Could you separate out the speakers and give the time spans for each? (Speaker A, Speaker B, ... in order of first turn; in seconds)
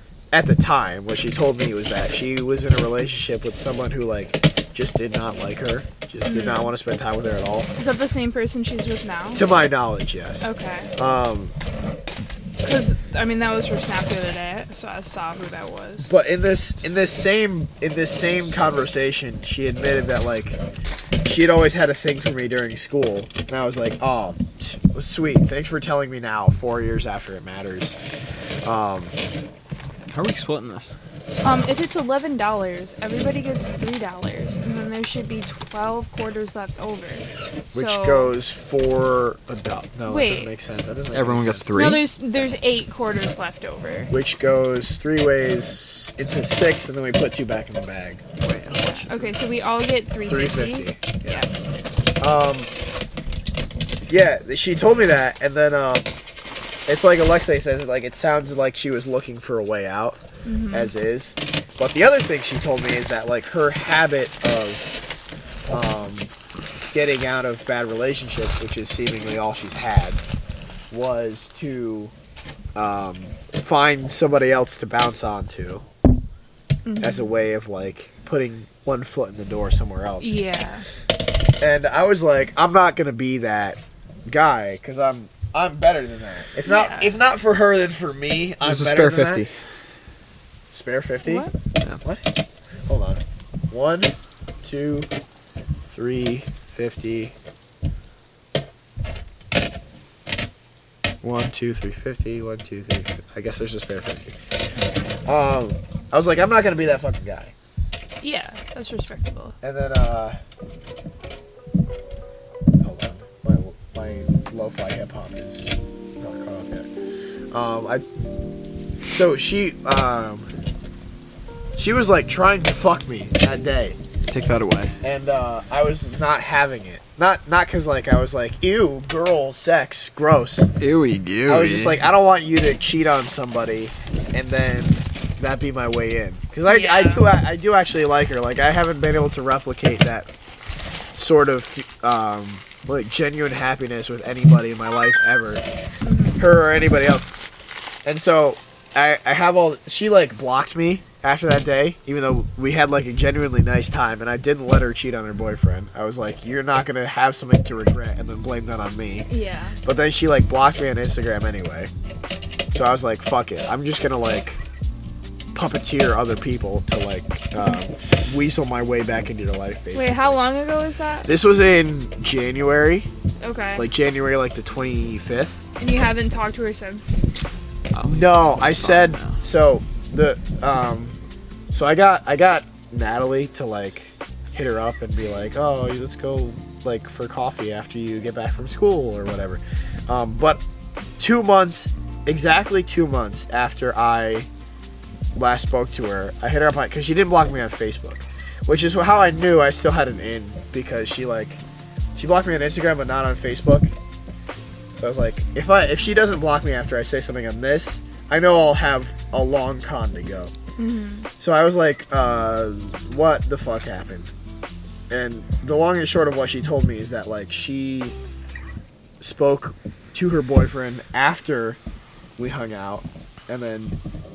Speaker A: 0.3-7.7, 9.3-11.5, 16.0-20.6, 21.2-28.0, 28.6-29.1, 37.7-41.8, 44.1-48.3, 50.2-51.4, 52.2-52.7, 54.1-56.1, 56.9-64.9, 65.7-66.3, 66.9-70.2, 70.9-72.1, 72.7-75.8, 77.0-80.4, 81.6-89.5, 90.7-91.5, 92.0-92.3, 92.9-95.1, 95.9-97.3, 101.2-104.3, 105.2-107.5, 109.6-110.4, 112.8-116.9, 117.5-118.0, 119.1-120.5, 121.8-124.0, 125.0-130.7, 131.5-140.3, 141.2-145.6, 146.4-147.3, 148.0-159.3, 159.8-161.9, 162.7-164.6, 165.5-170.4, 171.2-173.1, 173.8-175.6, 178.1-181.2, 181.7-190.6, 191.2-194.5, 195.3-201.6, 202.2-203.9, 205.0-210.5, 211.4-214.3, 215.1-218.1, 219.2-221.8, 222.4-224.0
Speaker B: 6.2-6.7, 7.8-9.4, 10.4-10.9, 12.6-16.2, 31.4-38.3, 40.1-40.5, 41.7-44.1, 48.7-51.5, 60.4-60.9, 76.8-77.3, 80.2-80.8, 86.7-87.1, 91.2-91.5, 108.2-109.5, 136.7-137.2, 146.0-146.4, 159.3-159.8, 169.9-171.3, 173.4-173.8, 175.8-177.2, 210.8-211.3
Speaker C: 30.1-30.9, 41.1-42.1, 48.4-49.3, 88.6-89.5, 124.3-124.9, 130.8-132.0, 177.9-179.4